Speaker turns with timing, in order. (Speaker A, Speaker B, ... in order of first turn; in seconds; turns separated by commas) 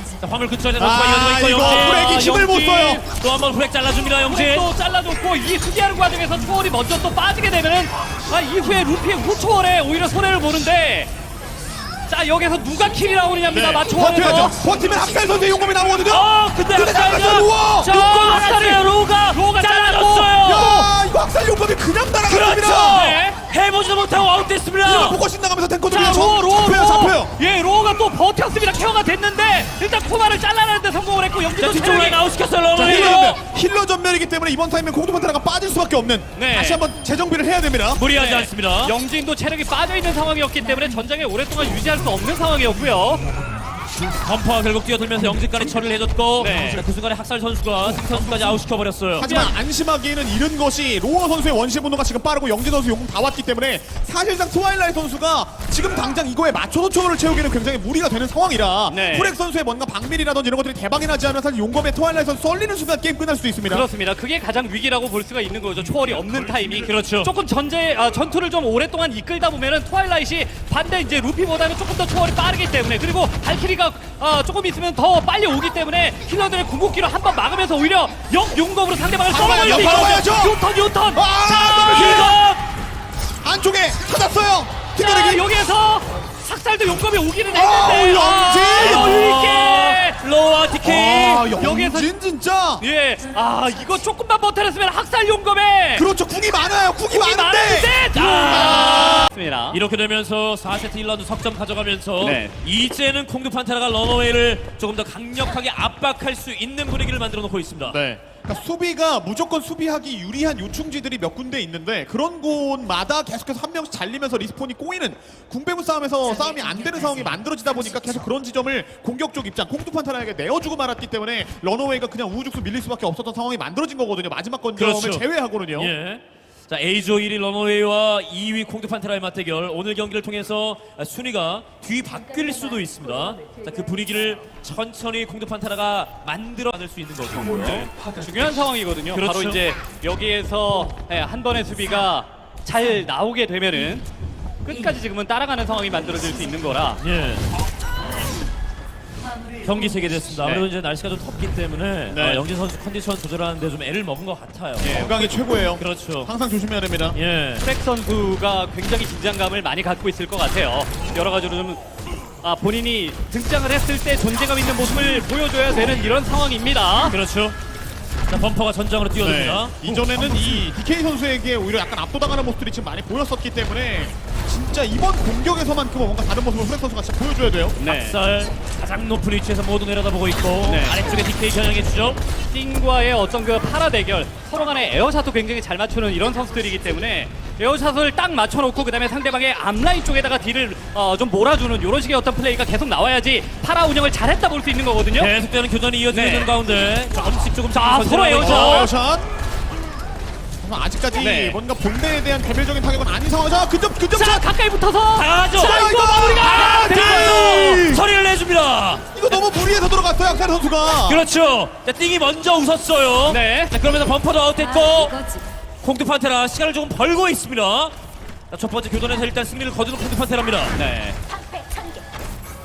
Speaker A: 0.2-2.3, Speaker B: 0.8-3.0, Speaker C: 1.6-3.0, Speaker A: 3.1-4.7, Speaker C: 4.2-11.1, Speaker C: 12.1-14.6, Speaker B: 13.5-18.1, Speaker A: 16.1-20.9, Speaker C: 17.9-20.4, Speaker B: 20.4-23.0, Speaker A: 22.2-25.2, Speaker C: 22.9-23.4, Speaker B: 24.8-27.3, Speaker C: 25.9-32.2, Speaker A: 31.6-33.4, Speaker B: 32.8-38.0, Speaker C: 36.4-36.8, Speaker A: 37.9-39.0, Speaker C: 38.1-43.3, Speaker A: 44.2-49.3, Speaker C: 46.4-46.8, Speaker B: 49.2-63.9, Speaker C: 49.2-49.5, Speaker C: 58.9-59.4, Speaker C: 63.7-82.3, Speaker A: 66.8-67.3, Speaker B: 79.3-80.6, Speaker B: 81.1-82.4, Speaker A: 81.6-82.6, Speaker B: 83.4-85.5, Speaker C: 85.0-90.2, Speaker B: 87.5-89.2, Speaker A: 88.7-91.5, Speaker B: 90.8-92.8, Speaker C: 91.4-92.1, Speaker C: 92.8-96.1, Speaker B: 96.0-99.3, Speaker C: 97.1-99.8, Speaker A: 98.1-108.0, Speaker C: 102.2-102.5, Speaker B: 107.9-125.9, Speaker A: 124.8-137.9, Speaker C: 137.6-144.1, Speaker A: 139.1-139.6, Speaker C: 144.6-147.0, Speaker A: 147.0-147.5, Speaker A: 149.6-155.1, Speaker B: 152.1-152.4, Speaker C: 154.8-155.4, Speaker B: 154.8-157.2, Speaker A: 155.8-156.3, Speaker A: 157.1-157.6, Speaker C: 157.6-161.8, Speaker C: 162.4-167.2, Speaker A: 167.1-167.6, Speaker A: 168.3-170.6, Speaker B: 169.2-177.8, Speaker C: 177.8-178.2, Speaker A: 177.9-182.2, Speaker C: 180.6-181.0, Speaker C: 182.5-195.3, Speaker A: 195.2-198.9, Speaker C: 196.1-196.5, Speaker C: 197.7-198.9, Speaker B: 198.4-199.3, Speaker B: 200.6-204.4, Speaker C: 201.2-201.6, Speaker C: 204.1-207.4, Speaker A: 205.2-205.8, Speaker B: 205.6-208.1, Speaker A: 206.4-209.1, Speaker B: 209.1-211.2, Speaker A: 211.1-217.9, Speaker C: 213.3-213.7, Speaker A: 218.5-220.8, Speaker C: 220.7-221.2